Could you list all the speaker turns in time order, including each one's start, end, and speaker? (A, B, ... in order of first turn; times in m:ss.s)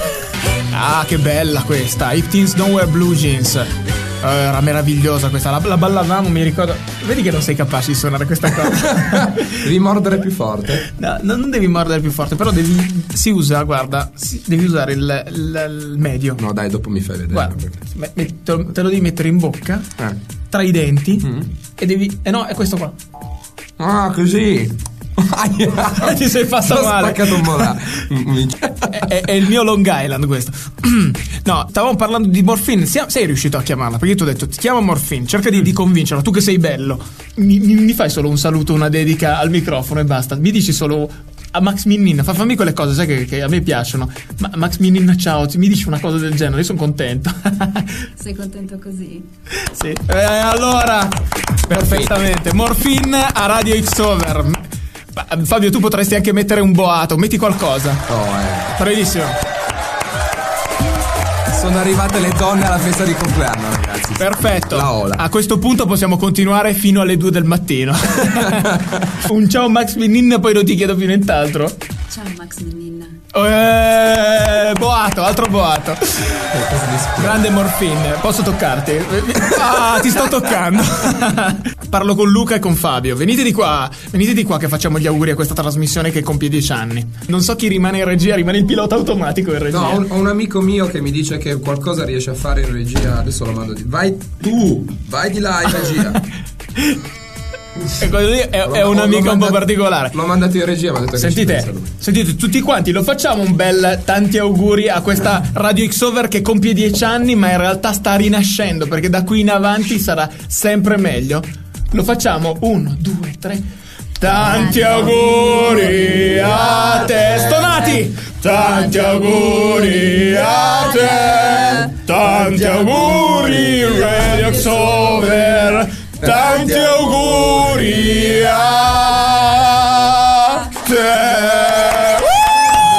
0:00.7-0:09.5 A
0:08.6-0:10.9 B
0:10.9-0:16.4 A
0:16.4-0:17.8 B
0:17.3-0:19.9 A
0:20.5-0:23.0 A
0:21.2-0:21.5 B
0:23.8-0:29.1 B
0:26.0-0:27.7 A
0:28.9-0:48.1 A
0:48.2-0:49.3 C
0:49.5-0:54.6 A
0:51.7-0:52.1 B
0:55.1-0:58.1 A
0:58.1-0:58.7 B
0:58.8-0:59.4 A
1:01.5-1:05.2 B
1:04.2-1:11.8 A
1:08.4-1:09.1 B
1:12.1-1:13.2 C
1:13.3-1:16.6 A
1:16.5-1:17.4 B
1:17.2-1:30.0 A
1:29.7-1:36.2 B
1:36.8-1:37.0 A
1:38.0-1:40.2 A
1:38.6-1:41.9 B
1:41.2-1:53.6 A
1:54.2-2:12.5 A
2:06.2-2:07.0 B